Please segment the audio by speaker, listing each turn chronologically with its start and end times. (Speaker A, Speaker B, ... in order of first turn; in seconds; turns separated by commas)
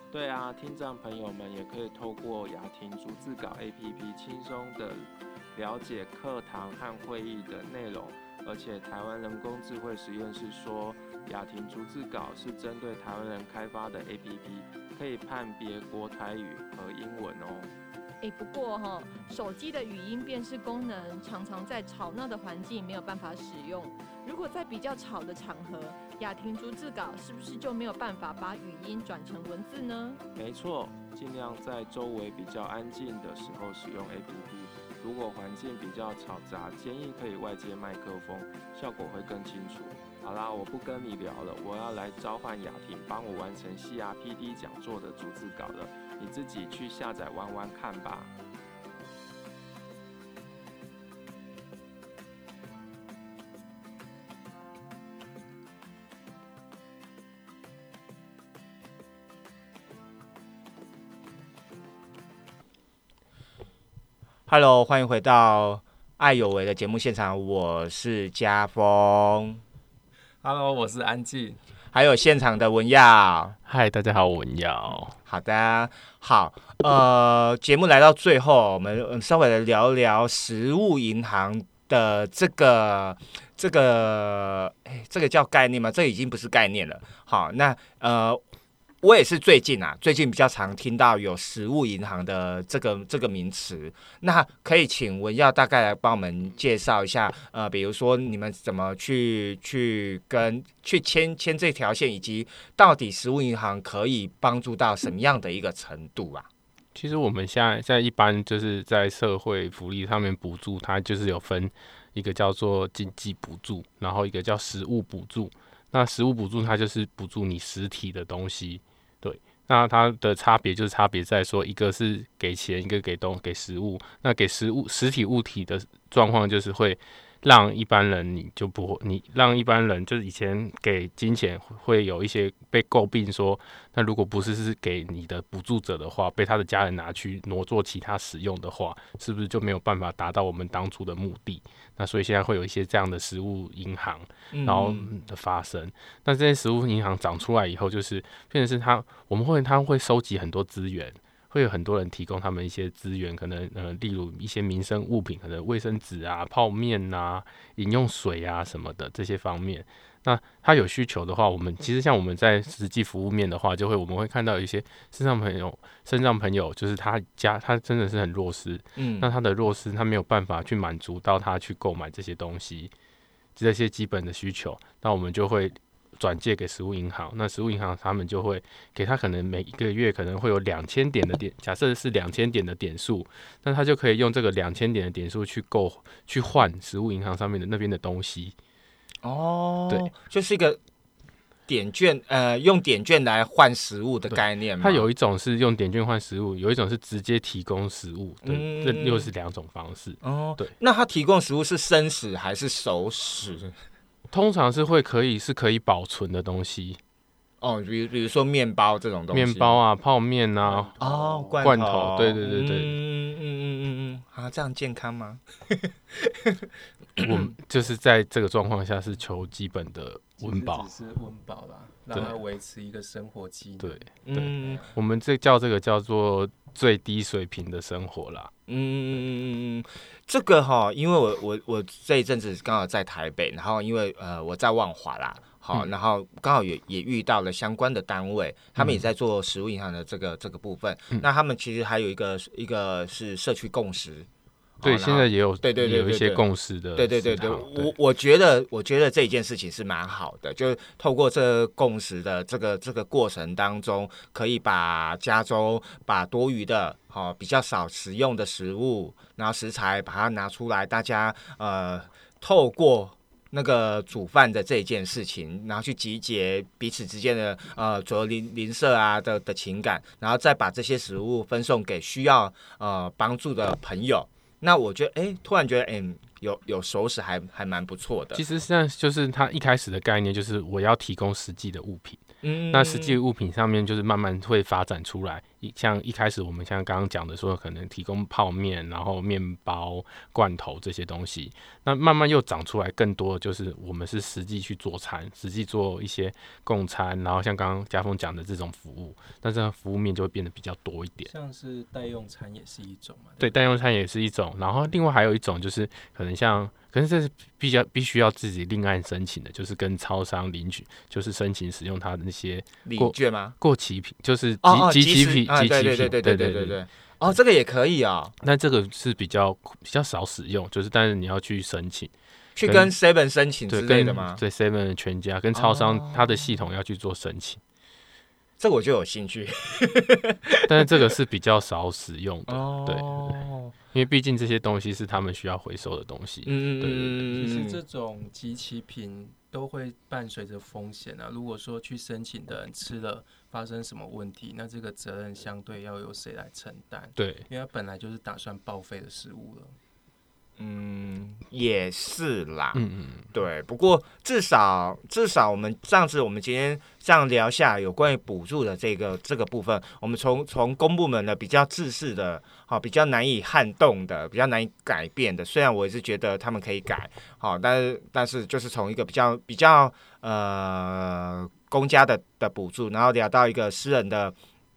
Speaker A: 0.1-17.7, Speaker B: 18.2-30.2, Speaker A: 30.4-48.3, Speaker C: 64.5-69.6, Speaker D: 70.4-71.6, Speaker C: 71.9-73.6, Speaker E: 73.7-75.2, Speaker C: 75.2-88.4, Speaker C: 89.0-106.5, Speaker E: 107.0-172.9, Speaker C: 144.5-145.1, Speaker C: 169.0-169.3, Speaker E: 173.6-188.6, Speaker C: 189.2-190.8, Speaker C: 191.7-195.1, Speaker E: 194.3-200.7, Speaker C: 198.4-199.3, Speaker C: 200.2-203.7, Speaker E: 204.3-207.0, Speaker C: 207.6-209.8, Speaker E: 209.3-211.0, Speaker D: 210.6-211.7, Speaker C: 211.0-216.6, Speaker E: 211.6-213.0, Speaker C: 217.2-217.5, Speaker E: 217.2-220.9, Speaker D: 220.4-224.9, Speaker E: 223.8-228.5, Speaker C: 224.3-224.8, Speaker C: 228.7-244.3, Speaker E: 238.8-239.0, Speaker C: 244.8-246.4, Speaker E: 244.8-247.9, Speaker C: 247.0-278.4, Speaker E: 278.3-301.3, Speaker C: 282.4-283.2, Speaker D: 301.2-303.7, Speaker E: 303.4-316.8, Speaker C: 312.9-313.6, Speaker C: 314.6-318.4, Speaker E: 318.4-322.1, Speaker C: 322.6-324.4, Speaker E: 322.6-322.9, Speaker E: 323.7-327.6, Speaker C: 325.6-326.4, Speaker C: 328.6-331.1, Speaker E: 330.7-333.4, Speaker C: 332.5-333.8, Speaker E: 333.9-337.2, Speaker C: 336.4-337.8, Speaker D: 337.3-349.8, Speaker E: 347.2-347.4, Speaker C: 350.6-352.8, Speaker E: 352.7-353.3, Speaker C: 353.3-374.4